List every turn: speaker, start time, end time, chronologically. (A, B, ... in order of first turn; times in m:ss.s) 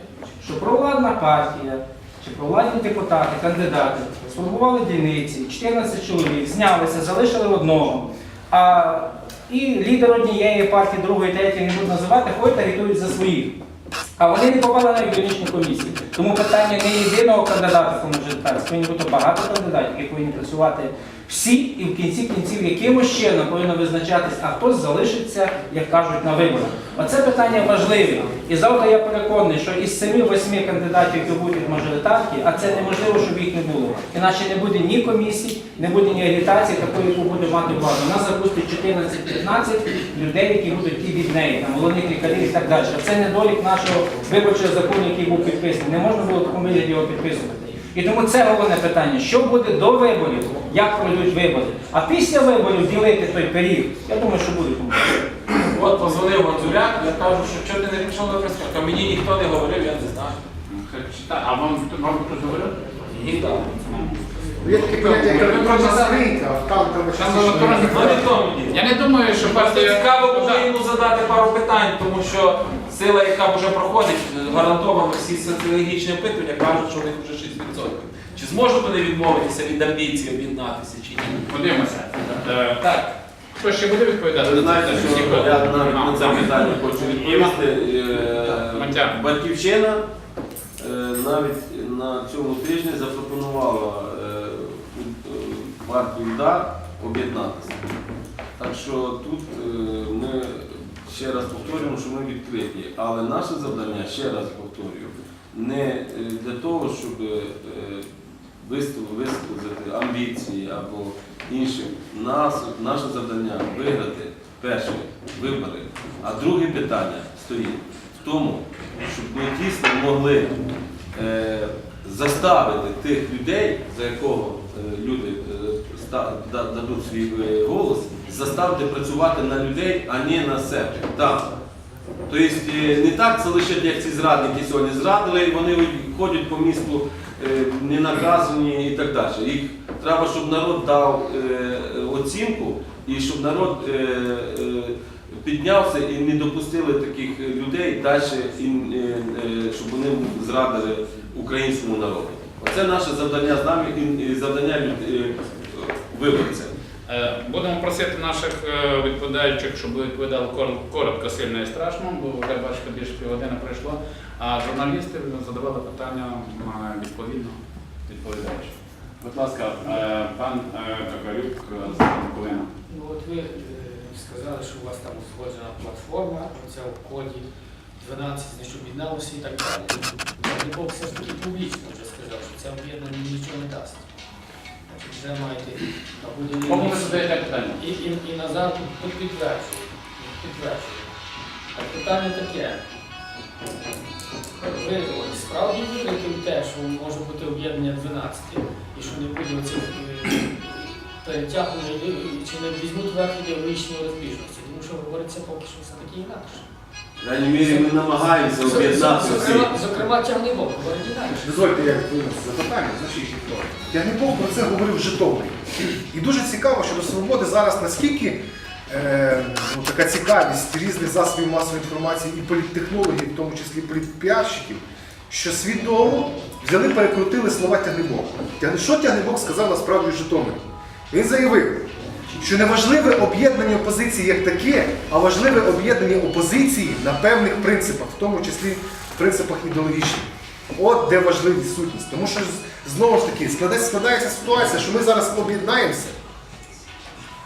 0:00.4-0:13.6 A
0:14.2-0:55.2 A
0:55.6-1:00.4 B
1:00.7-1:02.8 C
1:03.1-1:03.7 B
1:03.8-1:04.2 C
1:04.6-1:08.2 D
1:04.7-1:06.2 B
1:05.5-1:05.8 C
1:07.2-1:10.7 C
1:07.4-1:08.8 B
1:09.4-1:21.5 B
1:21.5-1:27.6 C
1:24.4-1:30.0 E
1:28.6-1:29.2 C
1:30.8-1:37.8 E
1:38.6-1:48.0 E
1:48.6-2:00.5 E
2:01.1-2:11.5 E
2:12.3-2:36.7 E
2:37.1-2:52.7 C
2:52.9-3:04.0 F
3:04.9-3:11.1 F
3:06.6-3:07.8 C
3:11.7-3:12.8 F
3:14.6-3:26.6 F
3:27.2-3:29.7 E
3:27.6-3:31.5 F
3:31.4-4:06.2 D